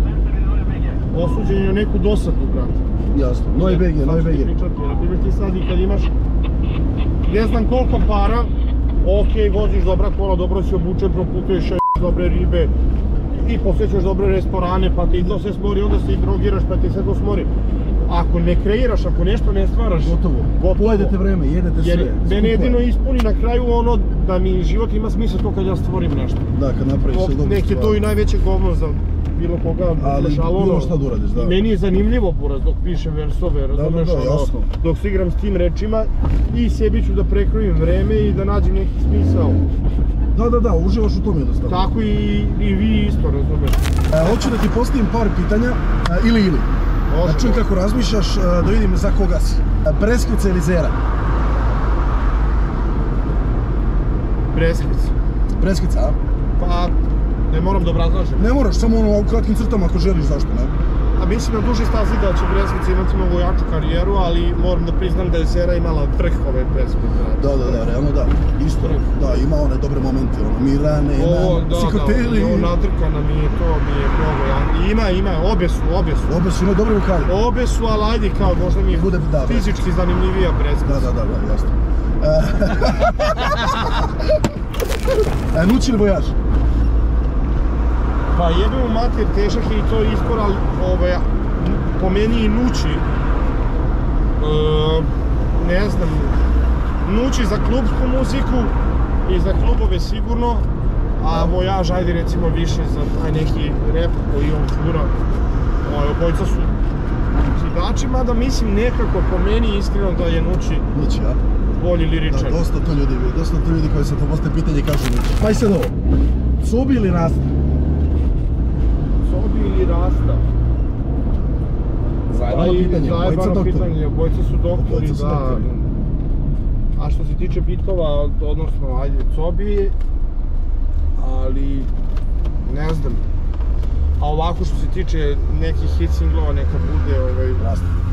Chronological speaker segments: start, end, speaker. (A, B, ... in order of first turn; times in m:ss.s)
0:01.1-0:02.8 A
0:03.1-0:04.5 B
0:03.6-0:06.1 A
0:07.2-0:08.5 A
0:09.0-0:12.7 A
0:13.3-0:17.5 A
0:18.0-0:21.2 A
0:20.0-0:22.8 B
0:21.8-0:26.5 A
0:26.5-0:28.0 B
0:27.1-0:39.6 A
0:30.0-0:31.6 B
0:33.7-0:34.7 B
0:40.3-0:41.9 B
0:41.7-0:43.9 A
0:44.1-0:46.7 B
0:47.1-0:47.6 A
0:47.2-0:51.0 B
0:54.5-0:55.1 A
0:55.6-0:56.2 B
0:56.6-0:56.9 A
0:57.5-0:58.5 A
0:58.4-1:00.8 B
1:01.1-1:07.9 A
1:07.4-1:12.7 B
1:11.2-1:16.3 A
1:16.3-1:17.3 B
1:17.2-1:21.1 A
1:18.9-1:19.7 B
1:20.8-1:24.1 B
1:25.5-1:26.3 B
1:28.3-1:33.1 A
1:34.4-1:36.4 A
1:37.0-1:45.1 A
1:45.8-1:46.8 A
1:47.4-1:50.8 A
1:50.9-1:51.4 B
1:51.7-1:52.6 A
1:52.3-1:55.9 B
1:56.6-1:57.5 B
1:59.2-2:00.4 A
2:02.3-2:03.9 B
2:02.4-2:05.9 A
2:04.7-2:05.7 B
2:06.9-2:09.9 A
2:11.2-2:11.9 A
2:12.6-2:13.2 A
2:14.2-2:17.7 A
2:17.6-2:17.9 B